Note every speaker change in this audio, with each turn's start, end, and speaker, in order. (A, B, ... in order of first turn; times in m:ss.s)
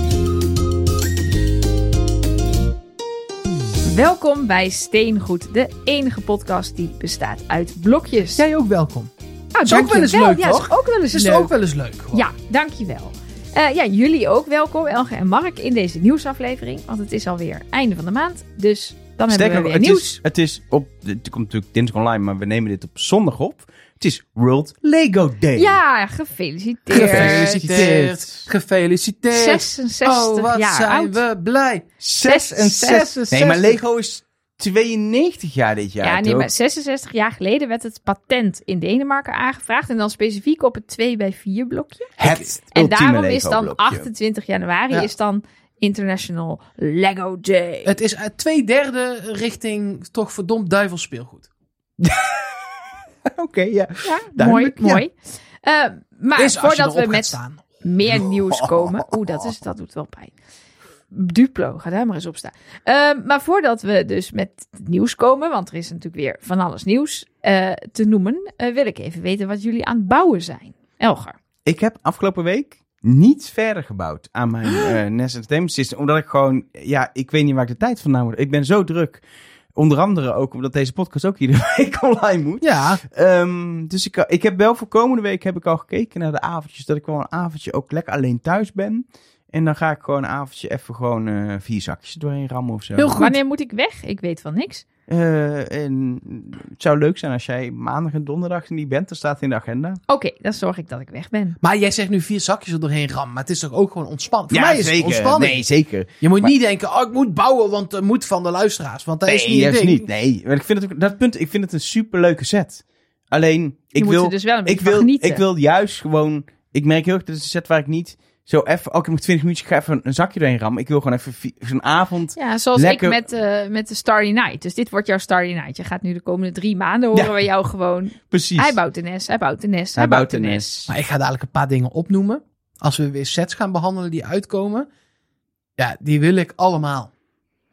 0:03.8-0:08.4 A
0:08.4-0:09.1 B
0:09.5-0:11.5 A
0:09.6-0:12.3 B
0:12.1-0:20.2 A
0:19.3-0:25.8 C
0:25.5-0:27.9 A
0:26.9-0:31.9 B
0:26.9-0:28.4 C
0:29.3-0:31.2 A
0:32.0-0:36.5 C
0:32.2-0:33.7 A
0:32.8-0:33.8 B
0:36.0-0:48.0 A
0:42.2-0:44.1 C
0:42.2-0:42.5 B
0:47.8-0:51.5 B
0:52.0-0:52.6 C
0:53.2-0:55.0 C
0:54.0-0:55.1 A
0:55.6-1:00.3 A
0:56.4-0:57.6 B
0:58.1-0:59.3 C
1:01.1-1:11.3 A
1:11.6-1:19.2 C
1:19.7-1:33.2 C
1:22.6-1:23.0 B
1:33.0-1:33.4 B
1:33.2-1:34.8 A
1:35.1-1:40.0 C
1:40.1-1:41.6 A
1:41.6-1:45.6 B
1:44.5-1:46.5 C
1:46.2-1:50.0 B
1:49.2-2:03.2 C
1:54.0-1:55.4 A
2:02.4-2:10.9 A
2:07.1-2:07.4 C
2:08.3-2:08.8 C
2:10.0-2:10.7 C
2:10.9-2:14.9 B
2:15.8-2:17.1 B